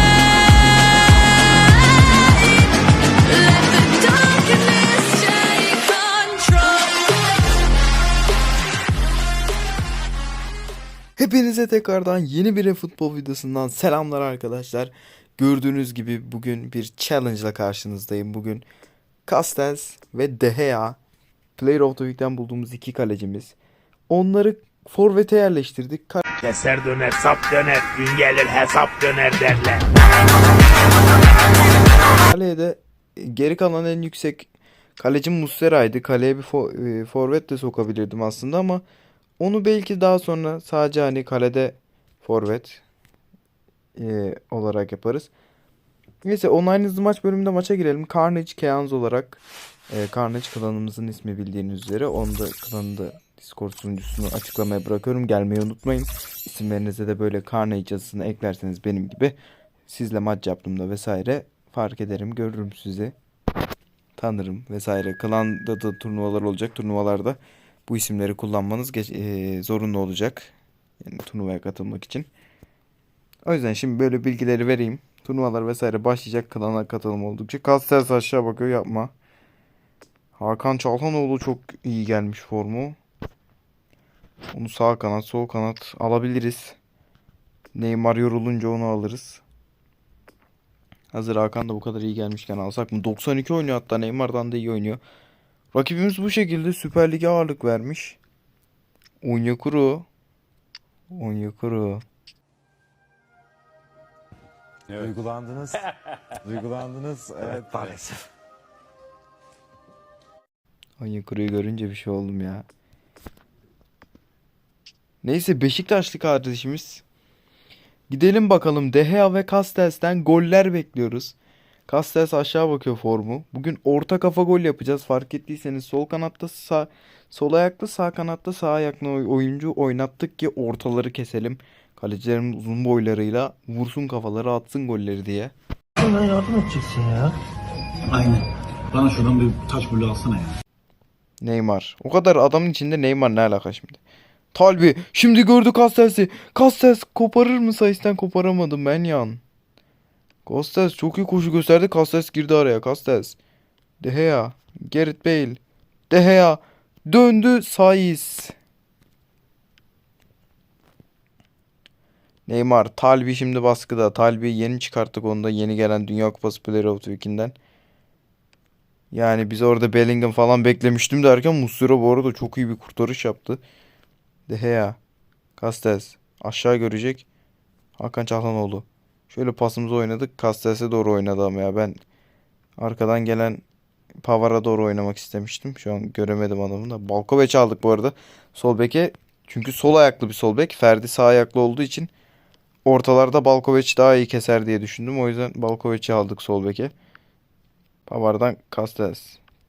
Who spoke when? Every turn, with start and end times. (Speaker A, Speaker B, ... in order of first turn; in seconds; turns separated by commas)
Speaker A: 1.7-7.3, Speaker B: 11.2-18.6, Speaker B: 19.3-21.0, Speaker B: 21.6-23.6, Speaker B: 24.1-26.2, Speaker C: 26.4-29.9, Speaker B: 32.2-38.8, Speaker B: 39.4-42.8, Speaker B: 44.0-45.3, Speaker B: 46.2-63.1, Speaker B: 64.2-70.5, Speaker B: 71.0-72.3, Speaker B: 73.4-79.1, Speaker B: 80.4-83.0, Speaker B: 84.5-86.8, Speaker B: 87.7-89.4, Speaker B: 91.1-95.0, Speaker B: 95.7-98.2, Speaker B: 99.2-100.1, Speaker B: 101.1-102.0, Speaker D: 104.9-105.8, Speaker D: 106.4-108.2, Speaker B: 111.0-112.7, Speaker B: 115.2-117.0, Speaker B: 118.1-121.4, Speaker B: 121.9-135.5, Speaker A: 136.0-137.4, Speaker E: 138.1-140.6, Speaker A: 138.9-140.4, Speaker B: 141.4-144.0, Speaker B: 144.5-149.4, Speaker B: 150.4-153.4, Speaker B: 154.0-158.5, Speaker B: 162.5-167.6, Speaker B: 169.1-173.6, Speaker B: 174.5-175.0, Speaker B: 175.6-177.3, Speaker B: 178.0-182.0, Speaker B: 182.8-183.6, Speaker B: 184.2-192.1, Speaker B: 192.8-196.9, Speaker B: 198.1-199.4